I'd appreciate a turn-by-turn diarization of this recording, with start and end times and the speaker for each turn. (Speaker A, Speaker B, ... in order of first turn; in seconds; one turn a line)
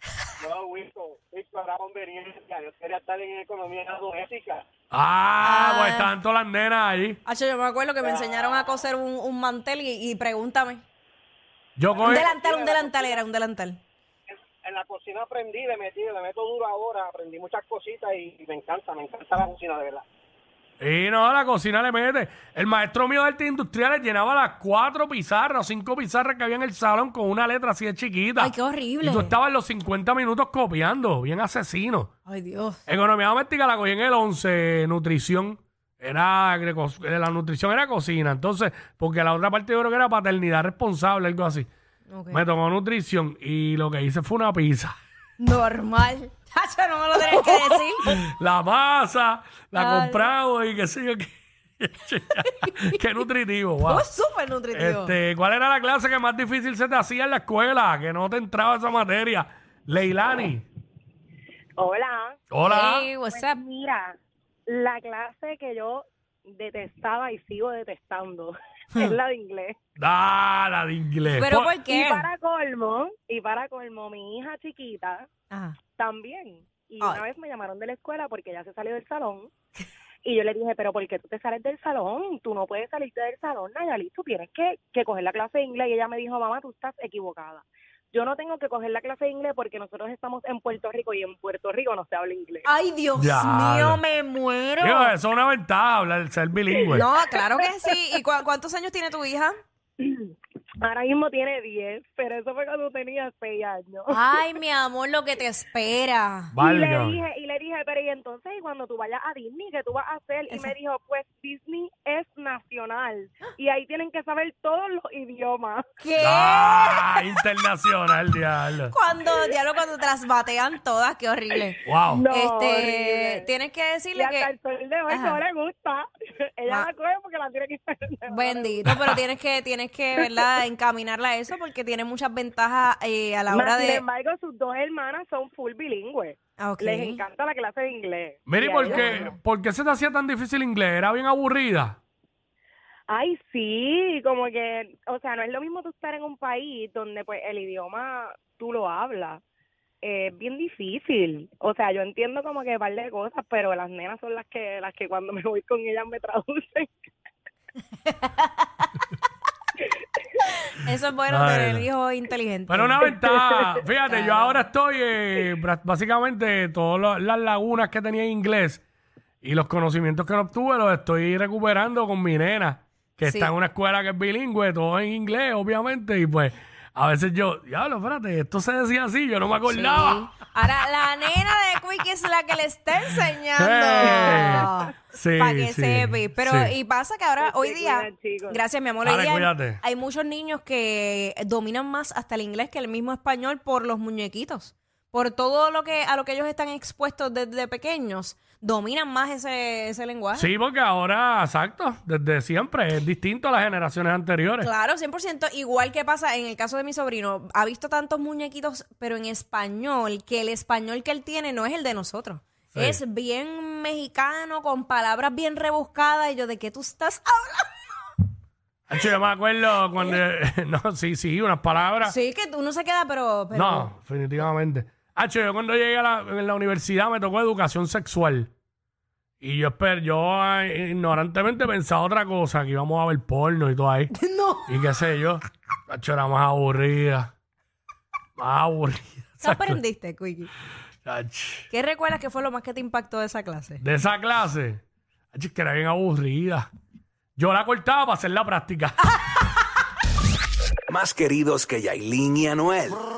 Speaker A: 0.4-4.6
Speaker B: 4.9-7.2
Speaker C: 5.4-6.1
Speaker C: 7.2-10.8
Speaker A: 8.0-8.7
Speaker B: 11.8-12.3
Speaker A: 11.9-13.2
Speaker C: 12.0-13.8
Speaker A: 14.6-20.0
Speaker B: 20.8-32.1
Speaker C: 28.4-29.4
Speaker C: 32.2-32.8
Speaker B: 32.9-41.7
Speaker C: 42.1-42.4
Speaker B: 42.3-44.9
Speaker C: 45.4-48.2
Speaker B: 48.0-54.0
Speaker C: 49.7-50.3
Speaker C: 53.8-55.1
Speaker B: 54.7-60.6
Speaker D: 61.8-62.5
Speaker B: 62.5-63.1
Speaker C: 62.6-63.6
Speaker D: 63.3-64.2
Speaker D: 64.7-69.8
Speaker B: 70.0-71.7
Speaker C: 71.3-72.2
Speaker D: 71.9-75.3
Speaker C: 75.5-75.8
Speaker D: 75.9-79.5
Speaker D: 80.2-92.7
Speaker C: 92.6-95.1
Speaker B: 93.2-94.0
Speaker B: 94.8-97.0
Speaker D: 96.8-97.3
Speaker C: 96.9-99.5
Speaker D: 100.0-104.4
Speaker C: 104.1-106.5
Speaker B: 106.5-107.2
Speaker D: 106.6-115.8
Speaker C: 116.0-117.0
Speaker B: 116.2-118.9
Speaker C: 118.9-121.8
Speaker D: 119.2-119.5
Speaker B: 121.8-122.2
Speaker D: 122.0-123.5
Speaker C: 122.3-124.5
Speaker D: 124.1-128.8
Speaker C: 125.1-125.4
Speaker C: 128.3-134.0
Speaker B: 128.9-129.2
Speaker D: 130.2-130.5
Speaker D: 133.5-139.3
Speaker C: 136.6-137.2
Speaker B: 138.5-142.0
Speaker C: 138.9-139.2
Speaker D: 143.1-149.4
Speaker D: 150.0-156.9
Speaker C: 158.1-158.5
Speaker D: 159.8-160.2
Speaker C: 160.7-163.0
Speaker B: 161.3-161.9
Speaker B: 162.7-168.8
Speaker D: 163.1-163.7
Speaker C: 164.1-164.5
Speaker B: 169.4-180.3
Speaker C: 173.2-173.5
Speaker C: 179.7-200.5
Speaker B: 183.5-186.7
Speaker D: 187.4-188.6
Speaker B: 189.0-189.8
Speaker B: 200.3-204.7
Speaker C: 204.6-217.8
Speaker B: 212.7-213.0
Speaker B: 218.9-222.1
Speaker C: 222.0-223.9
Speaker B: 223.5-228.5
Speaker B: 229.4-234.1
Speaker C: 234.1-234.9
Speaker B: 234.7-237.3
Speaker B: 238.4-239.8
Speaker C: 239.4-240.5
Speaker B: 241.0-241.7
Speaker C: 241.7-243.8
Speaker B: 243.8-244.8
Speaker B: 245.3-246.7
Speaker B: 247.4-249.0
Speaker E: 250.9-252.9